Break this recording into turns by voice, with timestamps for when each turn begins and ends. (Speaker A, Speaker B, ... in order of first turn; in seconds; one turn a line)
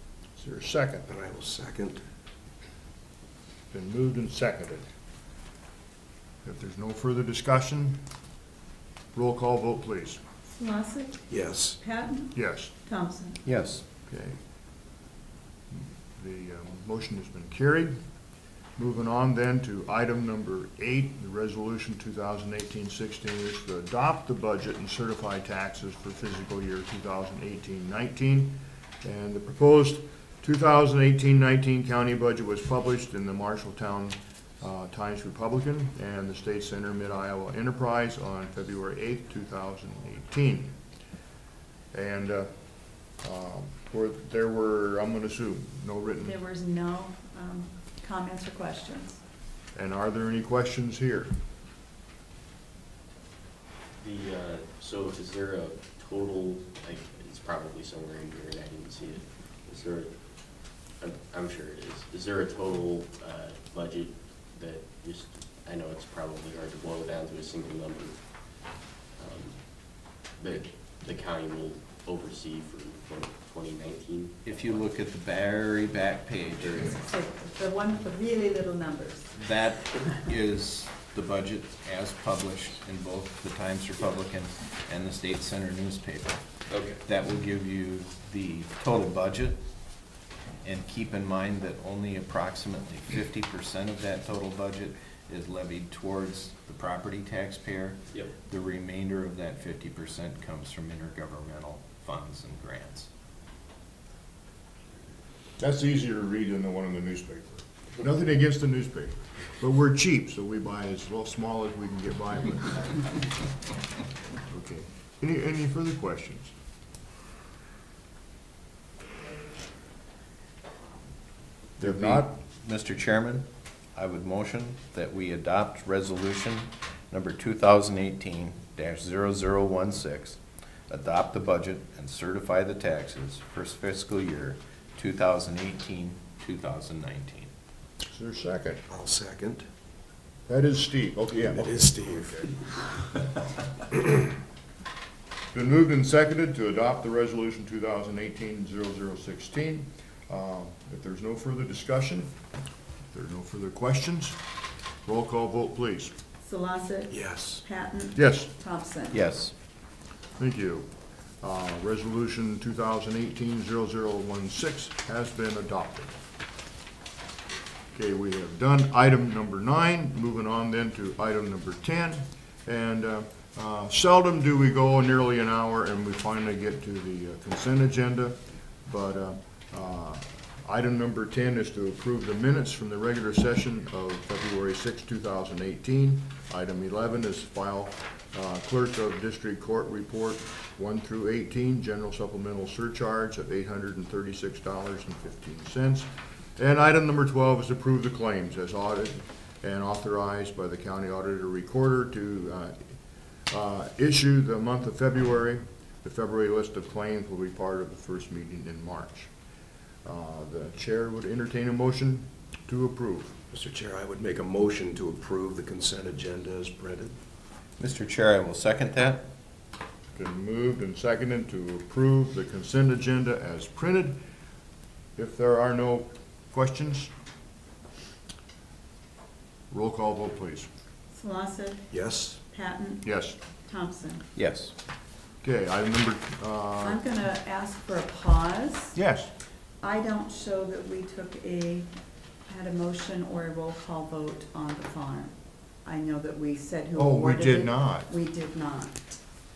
Speaker A: 0.4-1.1
Speaker B: 1.0-2.0
Speaker A: 3.7-4.8
Speaker A: 6.4-8.0
Speaker A: 9.1-10.2
Speaker C: 10.5-11.3
Speaker B: 11.3-11.8
Speaker C: 11.8-13.4
Speaker A: 12.3-12.7
Speaker D: 13.4-13.8
Speaker A: 14.1-14.4
Speaker A: 15.7-17.9
Speaker A: 18.8-40.7
Speaker A: 41.9-42.5
Speaker A: 43.2-46.4
Speaker C: 46.2-49.2
Speaker A: 49.8-51.3
Speaker E: 54.0-60.1
Speaker E: 61.0-74.8
Speaker D: 74.5-77.0
Speaker C: 76.8-79.4
Speaker D: 79.3-89.6
Speaker B: 86.7-87.0
Speaker D: 90.6-103.1
Speaker A: 105.6-113.1
Speaker A: 114.5-116.5
Speaker A: 121.8-122.3
Speaker D: 121.8-137.5
Speaker A: 138.1-138.8
Speaker B: 138.9-139.7
Speaker A: 140.5-141.8
Speaker B: 141.4-142.9
Speaker A: 145.5-152.3
Speaker A: 153.1-154.4
Speaker A: 155.1-156.1
Speaker C: 156.4-159.2
Speaker B: 157.1-157.6
Speaker A: 158.2-158.5
Speaker D: 159.1-159.5
Speaker A: 160.4-160.9
Speaker A: 161.4-166.1
Speaker A: 167.9-202.9
Speaker A: 203.5-209.3
Speaker A: 210.1-213.3
Speaker B: 213.5-217.2
Speaker D: 217.8-219.3
Speaker A: 220.2-224.2
Speaker A: 225.2-227.1
Speaker A: 229.7-230.7
Speaker C: 231.1-231.9
Speaker B: 231.9-232.4
Speaker C: 232.5-233.2
Speaker A: 233.0-233.4
Speaker C: 233.7-234.2
Speaker D: 234.4-234.7
Speaker A: 235.4-237.0
Speaker C: 236.8-239.0
Speaker A: 239.0-239.3
Speaker C: 239.8-241.9
Speaker C: 242.5-245.3
Speaker C: 245.8-249.0
Speaker A: 247.0-248.1